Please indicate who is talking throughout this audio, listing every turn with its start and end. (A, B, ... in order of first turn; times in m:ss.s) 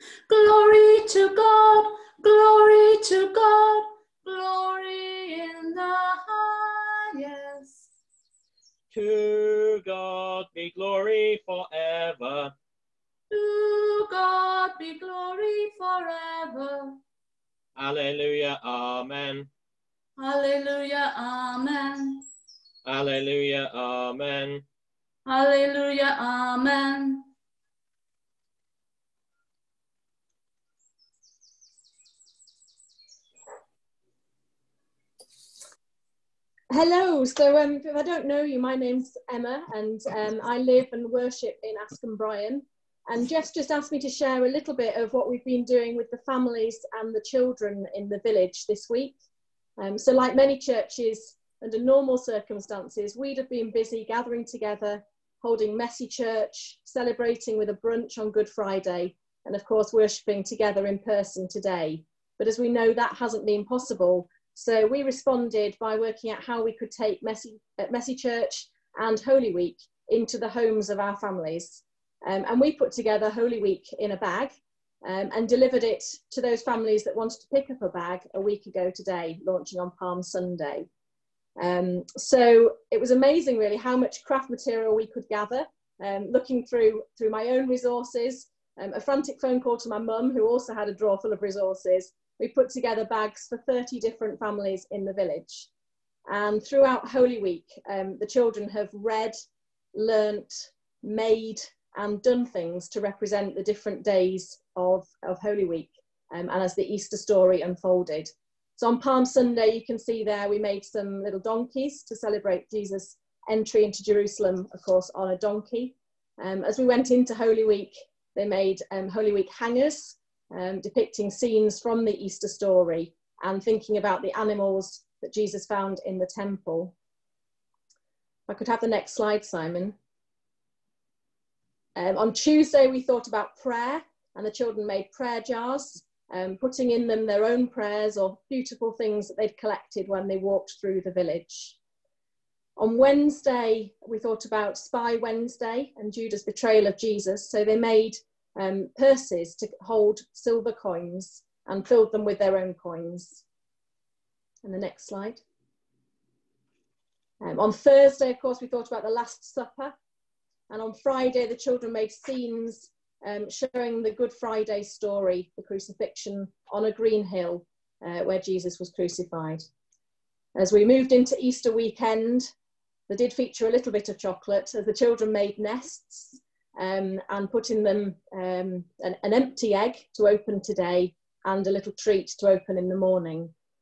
0:00.3-0:07.9 A
0:08.9-0:12.5 B
0:13.3-0:17.0 A
0:17.8-0:19.5 B
0:20.2-0:22.2 A
0:22.8-0:24.6 B
0:25.2-0:27.3 A
0:36.7-0:49.2 C
0:49.8-1:20.9 C
1:21.6-1:35.7 C
1:36.3-1:39.3 C
1:39.9-2:06.9 C
2:08.5-2:09.9 C
2:12.0-2:21.8 C
2:22.8-2:33.4 C
2:34.6-2:35.4 C
2:37.4-2:39.9 C
2:40.7-2:49.6 C
2:50.5-2:52.5 C
2:53.1-3:03.5 C